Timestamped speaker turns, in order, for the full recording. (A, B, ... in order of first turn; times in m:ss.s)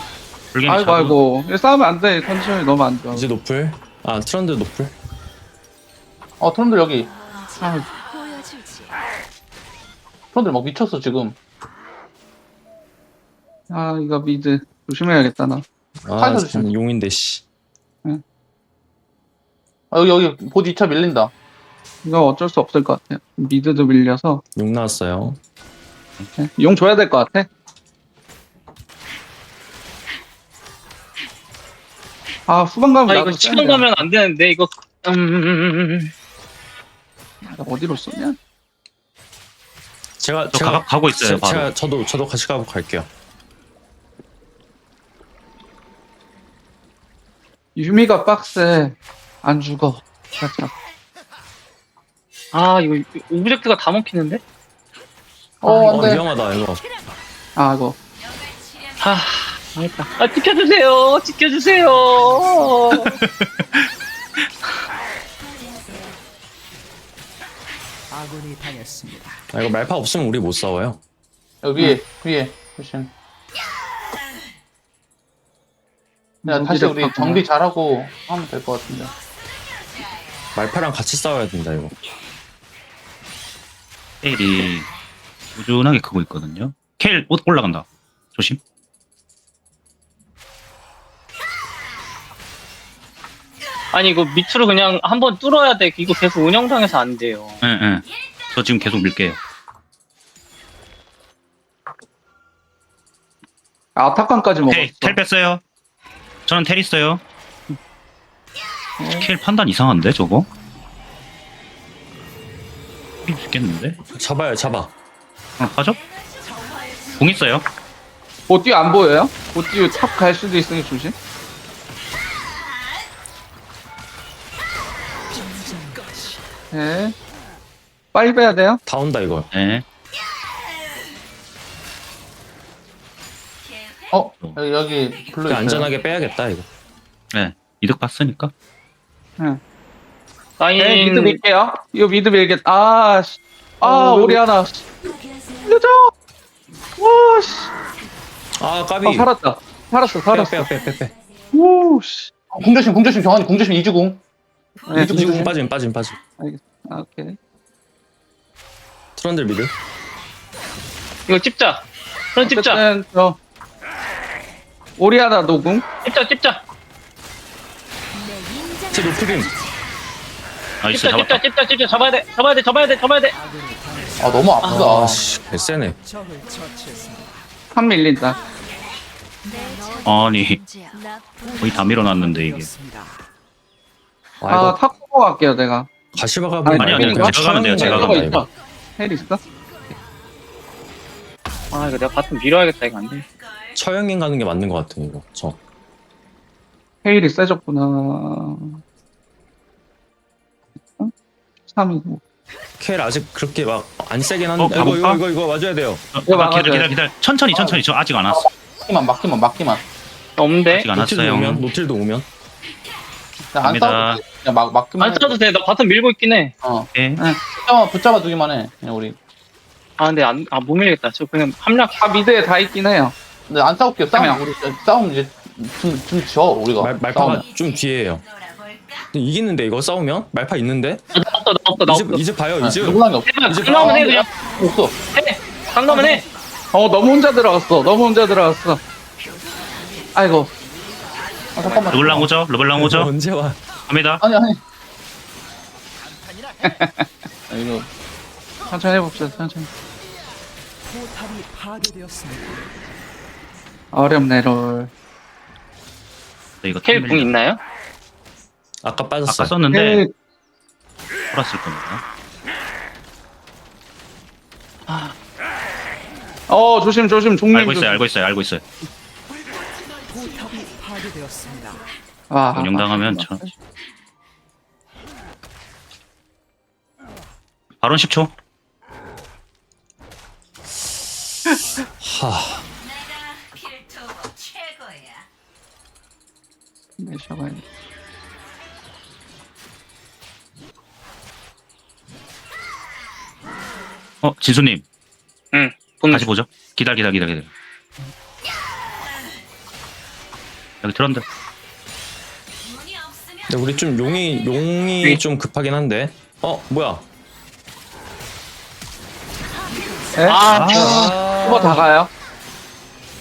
0:00.5-0:01.2 A
0:00.7-0:03.3 B
0:03.1-0:04.9 C
0:06.4-0:07.1 D
0:07.6-0:07.9 B
0:08.0-0:08.9 E
0:10.3-0:11.4 D
0:13.7-0:15.6 B
0:16.0-0:17.4 C
0:16.2-0:16.7 D
0:19.9-0:21.3 D
0:22.0-0:24.4 B
0:24.6-0:25.4 C
0:26.4-0:27.5 B
0:32.5-0:34.0 B
0:33.1-0:36.1 F
0:37.4-0:38.4 B
0:40.2-0:43.1 C
0:40.5-0:41.7 A
0:47.8-0:50.7 B
0:52.5-0:54.4 F
0:55.6-0:56.2 D
0:55.6-0:56.2 B
0:55.8-0:56.8 C
0:57.6-0:58.0 B
0:59.0-1:03.2 F
1:08.1-1:09.4 E
1:09.5-1:11.0 C
1:11.6-1:13.1 D
1:16.4-1:17.4 B
1:16.5-1:19.1 D
1:20.5-1:21.9 C
1:24.2-1:24.9 A
1:25.6-1:28.6 A
1:33.9-1:37.6 F
1:37.6-1:39.4 A
1:44.0-1:45.2 B
1:44.7-1:45.6 A
1:46.4-1:47.2 A
1:49.0-1:49.3 B
1:49.1-1:50.5 A
1:53.2-1:54.0 A
1:54.1-1:54.9 C
1:55.6-1:56.0 A
1:56.6-1:57.0 E
1:57.2-1:57.6 A
1:58.5-2:01.1 B
2:05.3-2:06.5 E
2:06.7-2:07.1 B
2:08.1-2:08.8 B
2:08.8-2:09.5 C
2:09.5-2:09.8 A
2:14.1-2:15.9 D
2:15.4-2:16.7 C
2:17.3-2:18.5 A
2:20.6-2:21.4 F
2:20.8-2:24.9 B
2:23.8-2:24.4 D
2:25.6-2:26.1 B
2:27.0-2:27.7 B
2:28.6-2:29.3 C
2:29.0-2:30.7 B
2:30.2-2:31.1 C
2:31.5-2:32.3 B
2:32.5-2:34.2 D
2:34.9-2:35.5 D
2:34.9-2:35.5 B
2:34.9-2:36.2 C
2:36.4-2:37.4 B
2:39.2-2:39.7 C
2:41.3-2:41.8 F
2:42.3-2:42.8 F
2:42.4-2:43.4 B
2:45.0-2:45.8 B
2:46.0-2:46.6 F
2:48.6-2:48.9 E
2:48.9-2:49.6 C
2:50.8-2:51.4 A
2:50.9-2:53.3 F
2:53.3-2:57.5 E
2:54.2-2:55.2 D
2:54.6-2:56.0 C
2:57.7-2:58.4 B
2:59.4-3:03.3 E
3:00.0-3:00.6 A
3:01.6-3:02.7 A
3:04.4-3:04.8 C
3:04.5-3:05.9 B
3:06.1-3:08.4 C
3:06.6-3:09.4 B
3:06.7-3:08.4 A
3:11.7-3:13.3 F
3:13.7-3:15.6 C
3:17.0-3:18.8 B
3:21.7-3:22.2 B
3:22.8-3:26.0 C
3:24.6-3:25.2 A
3:26.1-3:28.5 A
3:26.3-3:27.0 B
3:27.5-3:29.8 D
3:30.4-3:30.9 F
3:30.7-3:31.6 A
3:30.9-3:32.3 C
3:33.5-3:35.4 D
3:33.6-3:34.2 A
3:35.0-3:36.5 F
3:36.6-3:36.9 D
3:36.9-3:37.2 A
3:37.5-3:39.2 D
3:40.0-3:42.0 F
3:42.0-3:43.1 B
3:43.5-3:47.4 D
3:44.1-3:44.4 B
3:46.8-3:48.3 C
3:49.1-3:51.0 C
3:51.1-3:52.2 F
3:51.8-3:54.1 C
3:52.6-3:55.0 D
3:53.2-3:54.3 F
3:55.1-3:56.2 F
3:56.7-3:58.8 B
4:00.1-4:00.5 B
4:01.6-4:02.3 D
4:01.9-4:03.1 A
4:02.2-4:03.6 C
4:03.9-4:04.2 A
4:04.2-4:04.6 D
4:06.6-4:07.1 B
4:07.5-4:07.9 D
4:08.7-4:09.7 B
4:10.8-4:12.8 E
4:13.9-4:14.9 B
4:16.6-4:17.3 A
4:16.8-4:17.6 F
4:18.8-4:19.5 C
4:19.3-4:20.0 A
4:19.7-4:20.1 B
4:21.3-4:22.0 A
4:26.5-4:28.0 B
4:27.5-4:28.6 A
4:29.3-4:31.9 E
4:32.3-4:33.5 B
4:32.5-4:33.5 A
4:37.8-4:38.3 A
4:42.0-4:42.6 C
4:47.0-4:47.6 B
4:54.2-4:54.8 A
4:55.5-4:56.3 F
4:56.1-4:57.5 A
5:00.8-5:01.2 A
5:03.5-5:07.0 C
5:09.6-5:10.6 E
5:10.2-5:12.1 B
5:10.3-5:11.1 F
5:10.5-5:11.1 A
5:10.6-5:11.9 C